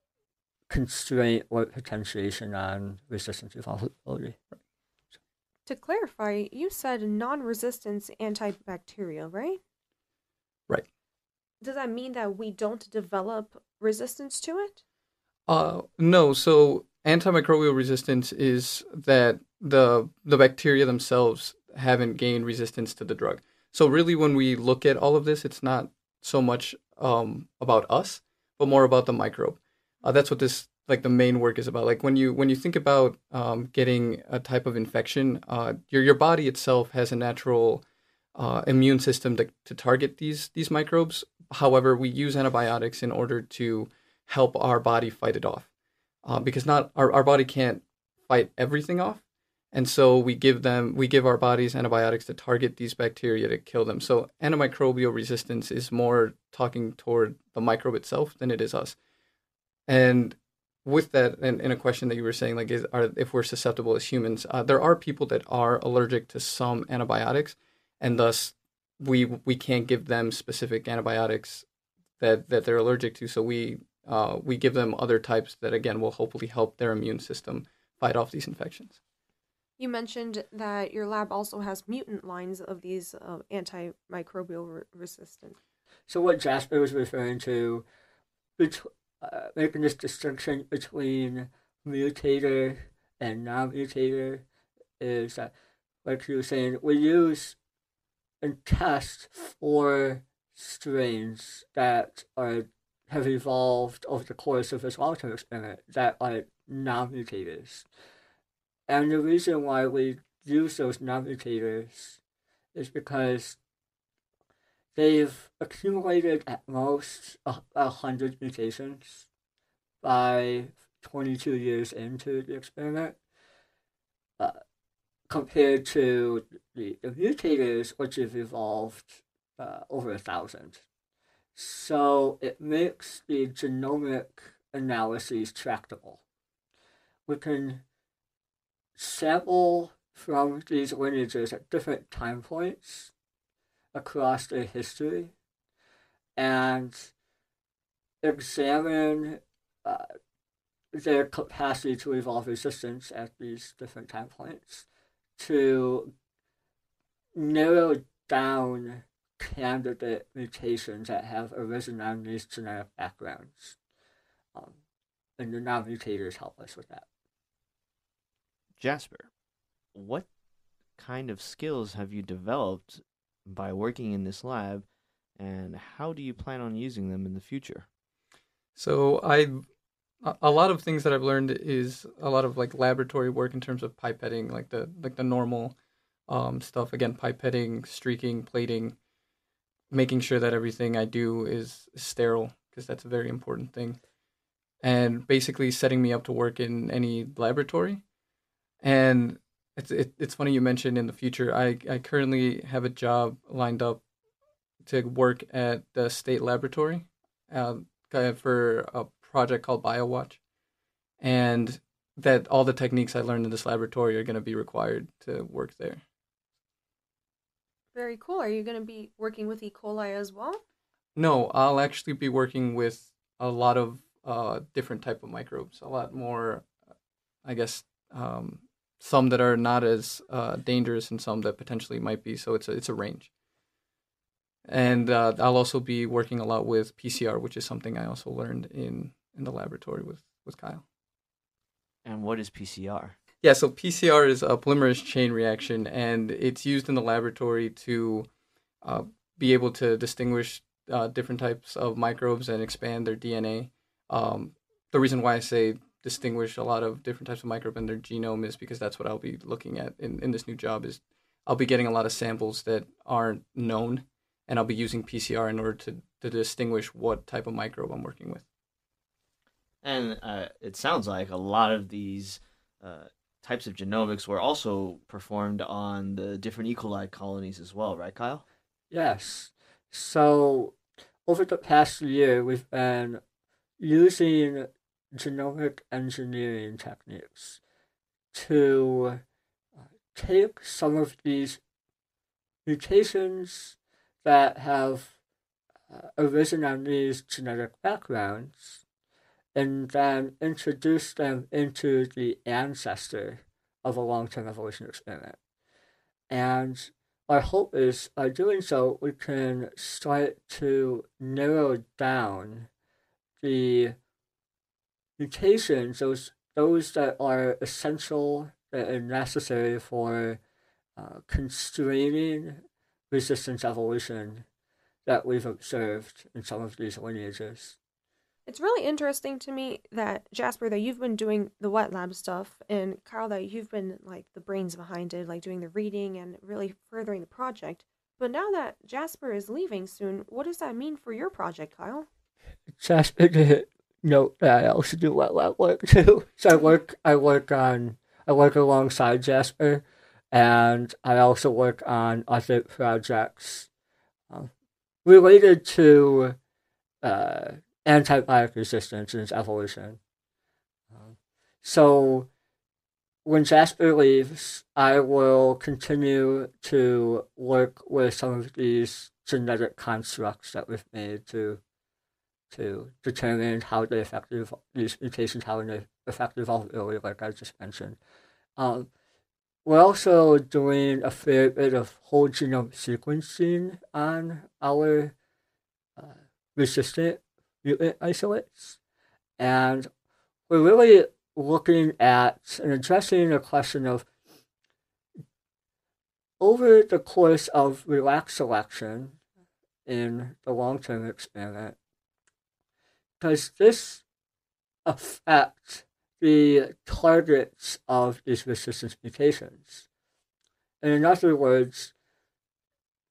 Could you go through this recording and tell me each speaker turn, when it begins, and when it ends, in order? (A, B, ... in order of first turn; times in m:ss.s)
0:00.7-0:04.4 A
0:05.7-0:09.6 B
0:11.6-0:14.8 B
0:15.5-0:37.8 C
0:38.4-0:45.7 C
0:46.2-0:59.0 C
0:59.9-1:11.6 C
1:12.2-1:19.0 C
1:19.8-1:25.6 B
1:26.1-1:27.8 A
1:28.6-1:34.4 A
1:35.0-1:35.5 A
1:36.0-1:37.6 A
1:38.4-1:47.9 A
1:48.9-1:52.2 A
1:52.7-1:53.6 A
1:55.0-1:59.3 A
2:00.0-2:03.2 A
2:05.3-2:10.8 A
2:11.6-2:16.2 A
2:17.3-2:17.8 A
2:19.0-2:23.1 A
2:23.9-2:25.3 A
2:26.4-2:27.1 A
2:28.2-2:30.1 A
2:30.9-2:34.9 A
2:35.4-2:36.1 A
2:37.4-2:43.8 A
2:45.4-2:47.1 A
2:48.8-2:49.3 D
2:50.0-2:50.3 D
2:51.0-2:54.9 D
2:55.4-2:57.9 D
2:58.8-2:59.6 C
3:00.2-3:05.8 C
3:06.3-3:09.0 C
3:09.9-3:14.0 C
3:14.8-3:18.0 C
3:18.8-3:24.0 C
3:24.8-3:30.4 C
3:31.2-3:36.0 C
3:37.9-3:40.6 B
3:41.2-3:46.7 C
3:47.4-3:53.3 C
3:54.7-4:00.8 C
4:02.0-4:03.2 D
4:03.4-4:08.3 C
4:08.8-4:28.4 C
4:29.8-4:38.4 D
4:38.9-4:43.2 A
4:43.8-4:47.6 A
4:48.3-4:49.2 A
4:49.8-4:51.6 A
4:52.7-4:55.1 A
4:55.9-4:58.8 A
4:59.6-5:05.4 A
5:06.3-5:12.7 A
5:13.4-5:14.0 A
5:15.2-5:20.4 A
5:21.0-5:24.4 A
5:25.1-5:27.8 A
5:28.5-5:42.1 B
5:42.8-5:53.7 A
5:55.0-5:56.4 A
5:57.0-6:00.0 A
6:00.9-6:02.3 A
6:03.2-6:11.6 A
6:12.5-6:18.0 A
6:18.6-6:18.9 A
6:19.6-6:25.1 A
6:26.0-6:28.8 A
6:29.4-6:29.9 A
6:30.5-6:34.1 A
6:36.4-6:39.2 A
6:39.9-6:41.8 A
6:43.2-6:44.0 A
6:44.8-6:49.8 A
6:50.8-6:51.9 A